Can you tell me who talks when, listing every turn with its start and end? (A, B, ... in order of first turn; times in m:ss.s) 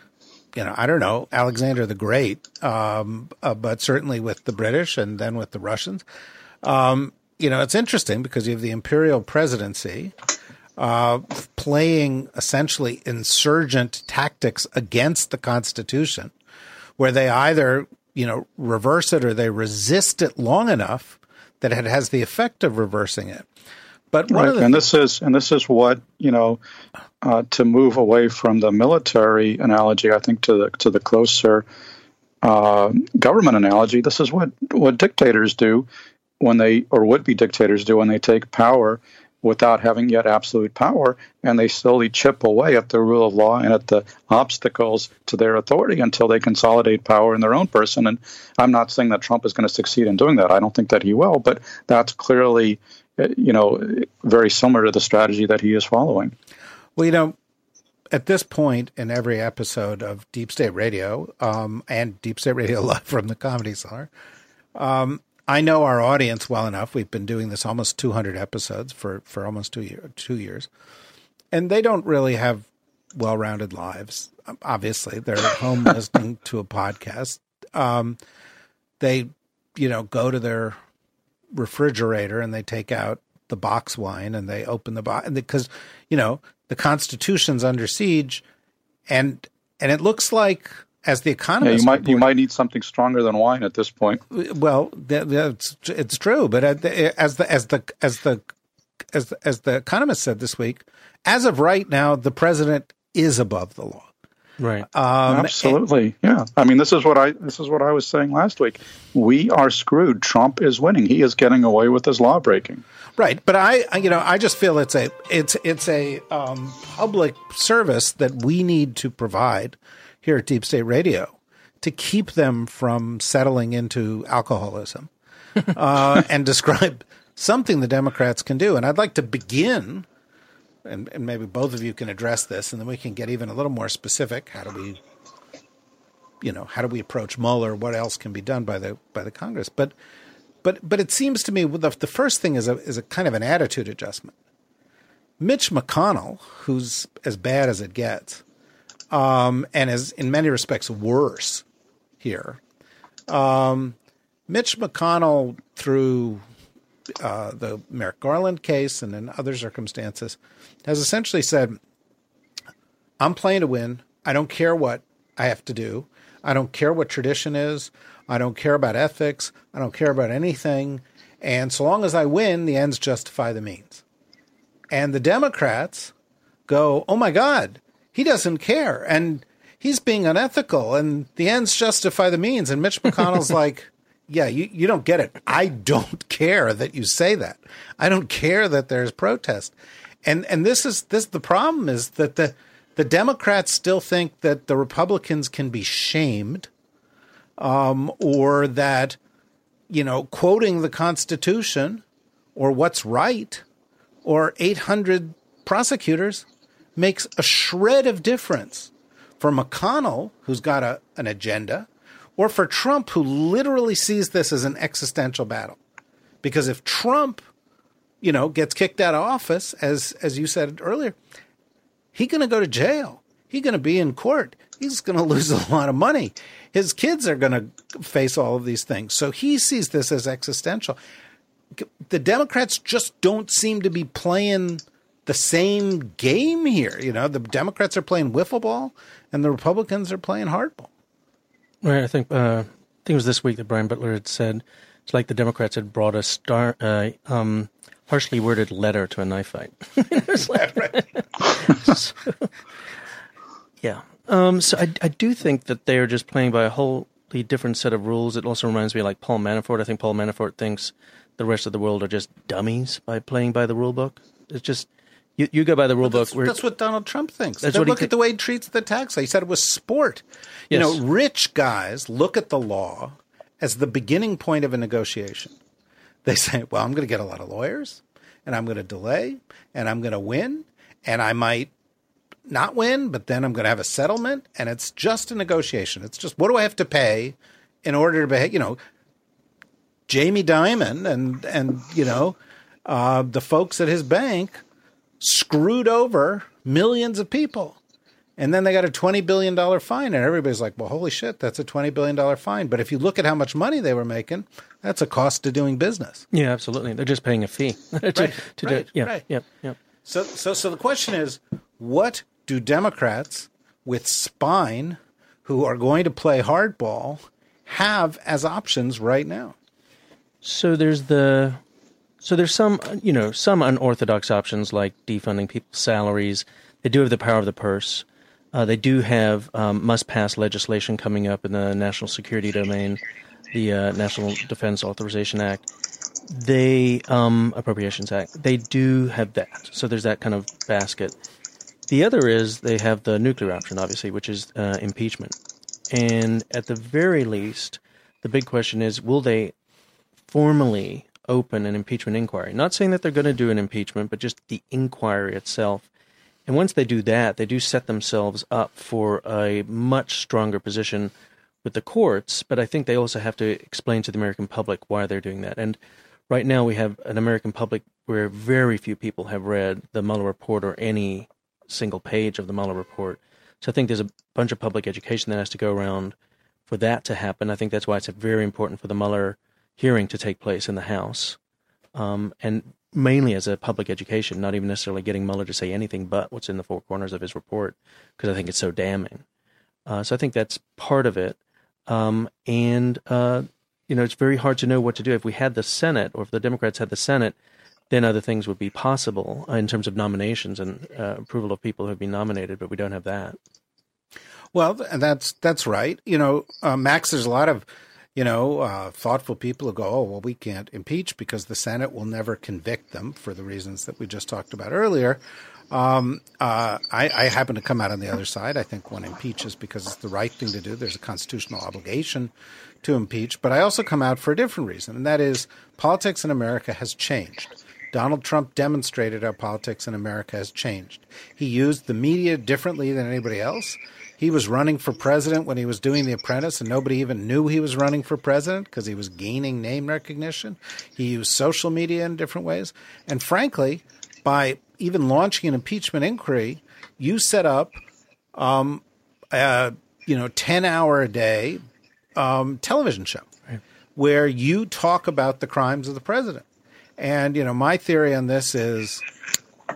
0:00.6-0:06.0 A
0:06.6-0:10.1 A
0:10.8-0:16.3 A
0:17.0-0:23.5 A
0:24.1-0:24.8 A
0:24.3-0:26.6 B
0:27.2-0:31.6 B
0:32.4-0:35.9 B
0:36.4-0:56.4 B
0:57.0-0:57.4 A
0:58.1-1:04.1 A
1:04.8-1:10.7 A
1:11.5-1:18.2 A
1:19.0-1:20.8 A
1:21.5-1:28.4 A
1:29.1-1:32.3 A
1:31.6-1:34.2 B
1:34.3-1:38.5 A
1:39.1-1:44.1 A
1:44.6-1:44.9 C
1:44.9-1:45.8 A
1:45.3-1:52.8 B
1:53.2-2:05.1 A
2:05.7-2:10.1 A
2:10.8-2:15.0 A
2:16.4-2:19.9 A
2:20.6-2:24.3 A
2:25.4-2:28.4 A
2:29.1-2:31.6 A
2:32.2-2:32.6 A
2:33.3-2:34.0 A
2:34.5-2:36.4 A
2:37.2-2:41.8 A
2:43.2-2:54.0 A
2:54.9-2:56.1 A
2:56.7-3:16.7 A
3:17.6-3:19.2 A
3:19.9-3:22.0 A
3:22.6-3:23.6 A
3:24.2-3:26.4 A
3:27.0-3:35.8 A
3:36.4-3:37.5 A
3:38.2-3:41.2 A
3:42.1-3:51.0 A
3:51.8-4:00.9 A
4:01.8-4:12.5 C
4:10.5-4:11.0 A
4:13.8-4:26.6 C
4:26.0-4:35.6 A
4:27.6-4:28.1 C
4:30.7-4:31.0 C
4:36.2-4:41.7 A
4:42.5-4:48.8 A
4:50.1-4:54.6 A
4:55.2-4:57.8 A
4:58.4-5:06.2 A
5:06.3-5:09.8 C
5:08.1-5:09.3 A
5:10.0-5:19.6 A
5:20.4-5:21.6 C
5:22.2-5:33.0 C
5:33.5-5:35.7 C
5:36.3-5:41.2 C
5:41.9-5:45.4 C
5:45.9-5:49.5 C
5:50.3-5:55.9 C
5:56.5-6:01.1 C
6:01.6-6:05.8 C
6:06.3-6:16.2 C
6:16.7-6:21.4 C
6:22.0-6:29.2 C
6:29.9-6:37.4 C
6:37.9-6:43.4 C
6:44.5-7:02.3 A
7:02.8-7:27.8 A
7:28.4-7:31.6 A
7:32.2-7:33.3 A
7:34.0-7:36.4 A
7:37.0-7:39.1 A